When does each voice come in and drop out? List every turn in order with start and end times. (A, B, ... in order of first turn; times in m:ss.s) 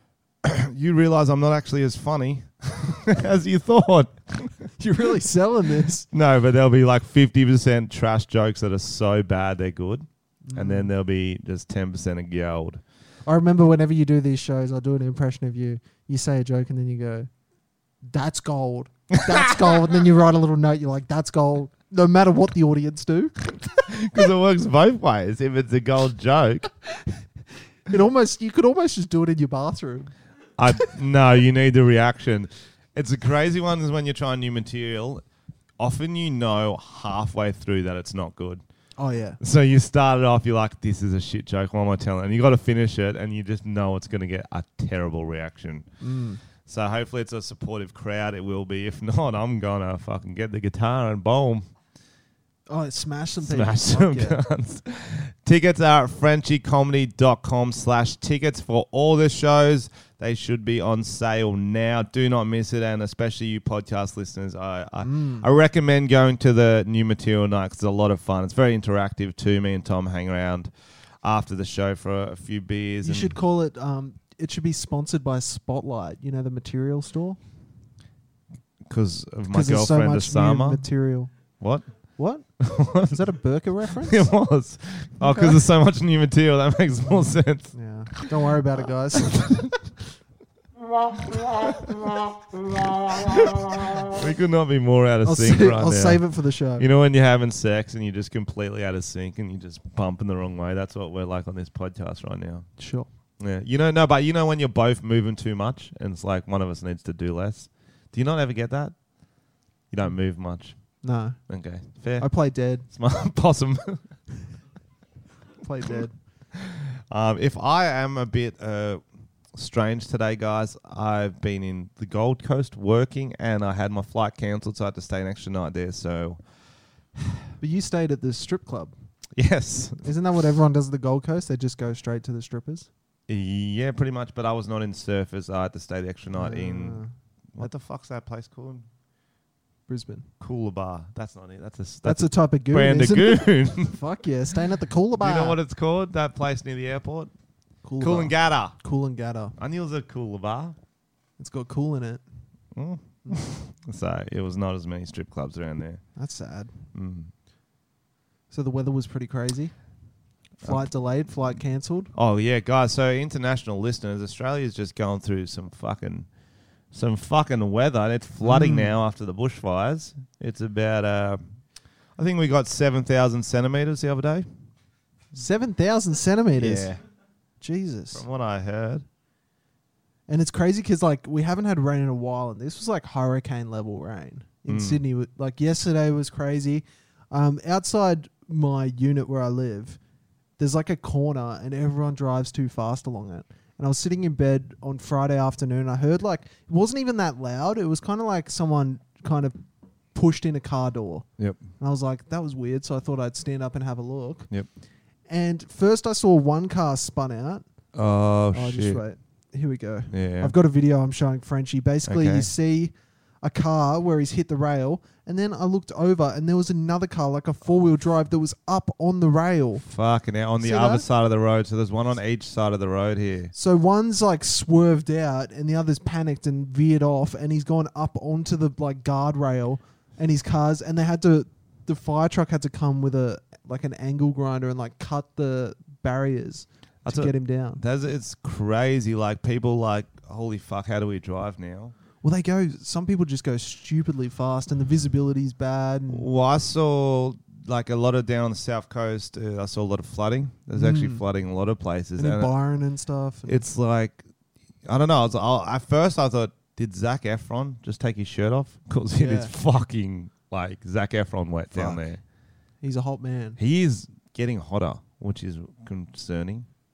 0:00.4-0:04.6 A
0:04.8-0:06.1 B
0:06.1-0:12.8 A
0:10.4-0:10.9 B
0:13.2-0:17.3 B
0:18.0-0:23.3 B
0:19.3-0:19.8 A
0:23.9-0:26.7 A
0:27.9-0:30.1 B
0:30.6-0:35.2 A
0:35.8-0:38.6 A
0:39.0-0:39.4 B
0:39.4-0:45.9 A
0:46.0-0:46.4 B
0:46.6-0:51.7 A
0:52.7-0:54.4 B
0:53.4-1:10.7 A
1:05.0-1:05.5 B
1:11.2-1:13.4 A
1:13.0-1:17.4 B
1:18.8-1:20.9 A
1:19.5-1:21.3 B
1:21.6-1:23.2 A
1:22.2-1:24.3 B
1:24.0-1:28.3 A
1:25.2-1:25.6 B
1:27.1-1:29.6 B
1:29.2-1:29.7 A
1:31.4-1:31.7 A
1:34.1-1:42.7 A
1:35.2-1:36.8 B
1:42.8-1:43.1 B
1:43.4-1:54.0 A
1:51.0-1:51.4 B
1:52.2-1:52.8 B
1:55.6-1:56.1 B
1:56.5-2:06.4 A
2:07.6-2:08.9 B
2:09.3-2:10.0 A
2:10.0-2:12.9 B
2:13.3-2:17.0 A
2:16.3-2:17.7 B
2:17.5-2:18.8 A
2:19.9-2:20.3 B
2:20.4-2:24.0 A
2:22.0-2:25.6 B
2:25.2-2:27.3 A
2:27.8-2:29.6 B
2:28.0-2:28.8 A
2:29.6-2:30.8 A
2:31.4-2:32.2 B
2:32.7-2:36.0 A
2:36.2-2:36.7 B
2:36.9-2:37.3 A
2:38.5-2:39.8 B
2:40.6-2:40.9 A
2:40.6-2:42.1 B
2:42.1-2:46.3 A
2:46.9-2:51.5 A
2:48.4-2:48.9 B
2:52.1-2:54.5 A
2:55.3-2:57.0 B
2:56.6-2:57.0 A
2:57.6-2:58.2 B
2:58.1-2:59.0 A
3:00.3-3:10.0 B
3:04.7-3:05.0 A
3:10.6-3:19.6 B
3:20.1-3:24.5 B
3:21.4-3:21.6 A
3:25.2-3:27.6 B
3:27.9-3:29.0 A
3:28.5-3:39.8 B
3:30.1-3:30.5 A
3:32.0-3:32.5 A
3:39.8-3:43.5 A
3:40.6-3:41.0 B
3:43.5-3:57.8 B
3:57.0-4:01.9 A
4:02.2-4:06.3 B
4:06.1-4:12.5 A
4:10.7-4:11.2 B
4:12.2-4:13.6 B
4:13.4-4:14.2 A
4:14.8-4:22.2 A
4:19.2-4:19.5 B
4:21.7-4:22.1 B
4:22.8-4:23.6 B
4:23.6-4:26.7 A